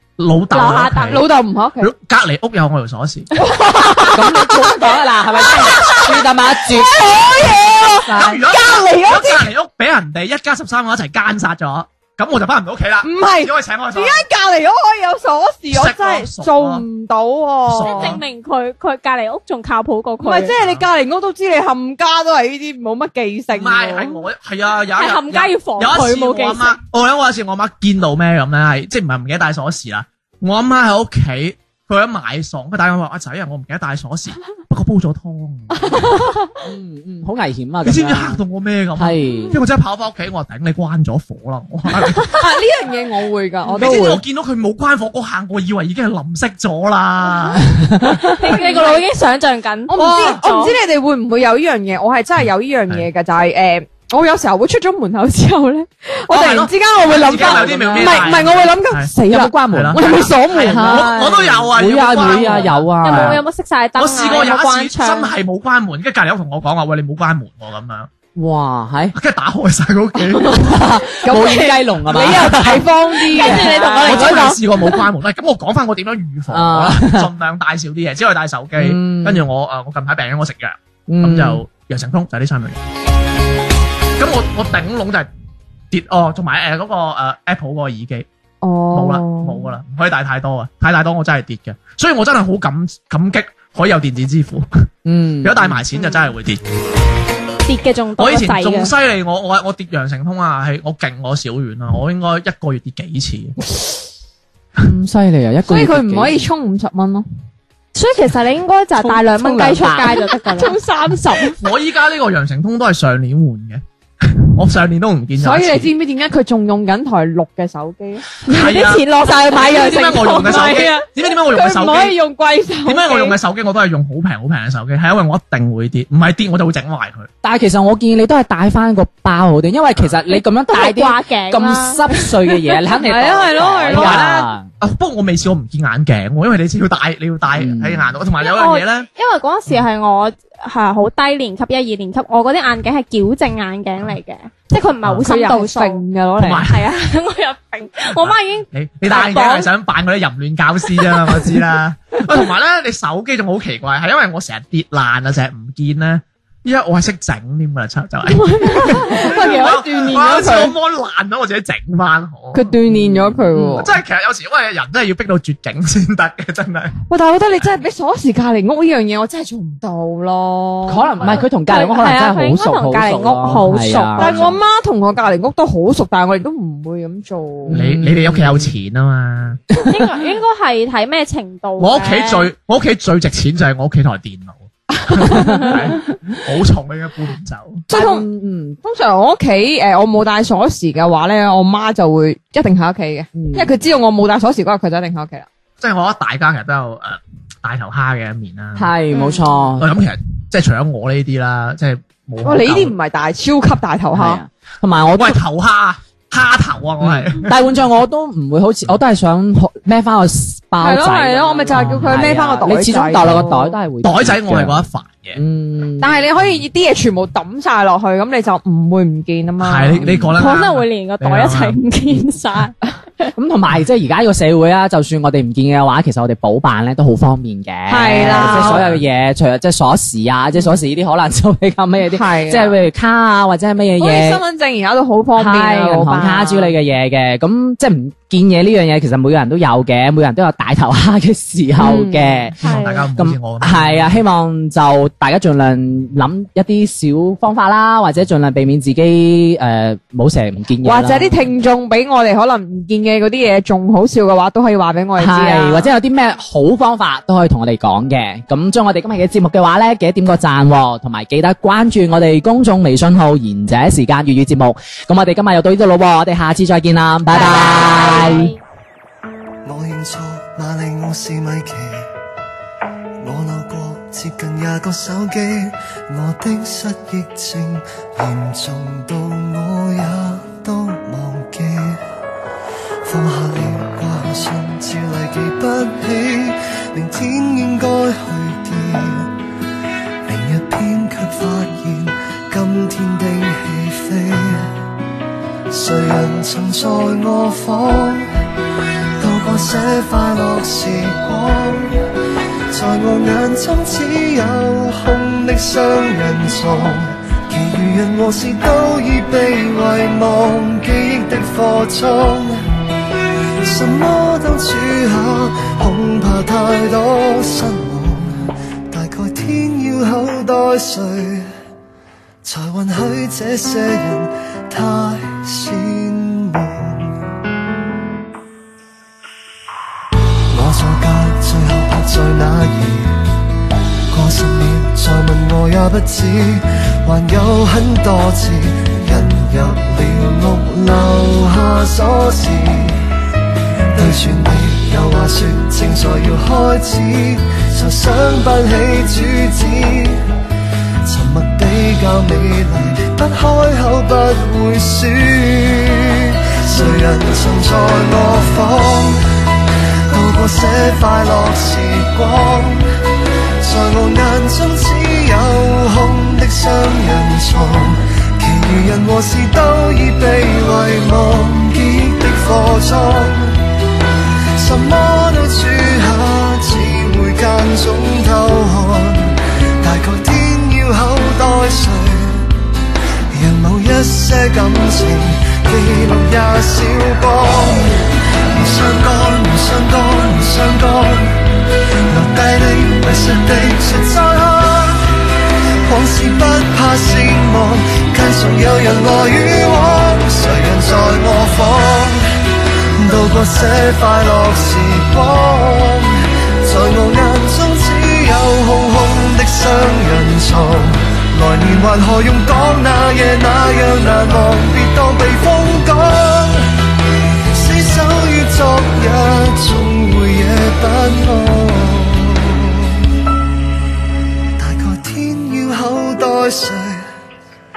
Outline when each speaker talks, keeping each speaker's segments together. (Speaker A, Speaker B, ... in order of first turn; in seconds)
Speaker A: 0.2-1.2, 1.8-3.3, 7.1-14.2, 15.7-16.8, 17.7-18.2, 20.5-20.8, 23.5-36.0, 37.8-42.4, 43.7-48.5, 50.0-50.3, 56.3-59.1, 59.7-63.4, 64.0-68.1, 69.1-70.8, 74.0-82.8, 84.2-85.3, 85.9-88.3, 88.9-94.8, 95.4-96.6, 98.2-103.6, 111.5-115.9, 118.5-122.2, 122.8-127.3, 133.9-134.3, 134.8-139.1, 146.4-146.9, 148.2-162.8, 163.8-167.0, 174.2-174.6, 177.7-179.6, 181.8-187.8, 195.8-198.9, 199.8-202.9, 205.1-207.6, 211.7-212.1, 214.0-215.4, 219.6-221.8, 228.4-229.0, 242.6-244.2
Speaker B: 0.5-1.2, 17.7-20.5, 24.9-26.8, 48.2-50.7, 63.0-65.3, 73.3-74.5, 97.7-98.9, 107.9-110.8, 118.5-121.0, 130.3-132.7, 138.4-146.0, 146.6-149.7, 171.6-174.4, 179.8-182.5, 199.1-199.5, 220.3-223.3, 242.6-243.1, 267.3-268.6
Speaker C: 1.1-1.9, 3.3-9.5, 13.0-18.2, 20.2-24.2, 35.8-36.5, 42.3-44.2, 48.5-49.0, 49.9-61.1, 70.3-70.7, 71.2-74.6, 88.6-89.7, 105.7-107.2, 110.0-111.6, 115.4-118.3, 119.5-123.4, 132.9-134.5, 145.2-146.6, 158.3-160.7, 162.5-163.9, 167.1-171.4, 174.2-177.8, 187.9-188.3, 188.8-195.5, 202.4-204.4, 210.8-213.8, 216.0-220.1, 227.9-228.9, 232.1-232.8, 233.9-236.7, 241.8-242.5, 250.8-255.9
Speaker D: 4.1-7.2, 7.7-8.4, 36.6-38.4, 39.0-39.6, 47.7-48.4, 57.3-58.5, 59.2-60.0, 60.6-63.4, 68.3-69.1, 70.6-72.8, 76.5-77.3, 78.8-79.5, 81.1-81.6, 95.0-95.8, 104.8-106.5, 109.0-110.2, 127.4-134.7, 137.6-138.1, 162.9-163.9, 170.8-174.3, 177.7-178.7, 185.3-185.7, 187.9-188.8, 193.3-193.7, 198.8-199.9, 204.1-205.4, 207.0-214.8, 215.3-216.1, 220.0-220.3, 223.4-234.4, 235.3-242.5, 243.2-251.5, 255.2-268.5
Speaker E: 269.6-272.1, 273.2-282.0, 283.0-289.3, 290.2-294.7, 295.7-298.3, 299.2-302.1, 302.7-312.6, 313.6-321.5, 322.4-327.2, 330.5-333.2, 334.1-343.0, 343.9-350.2, 351.1-359.3, 360.1-362.9, 363.6-373.6, 374.6-382.5, 383.3-391.5, 392.1-395.1, 395.9-402.3, 403.0-416.7, 417.5-422.9, 424.6-427.1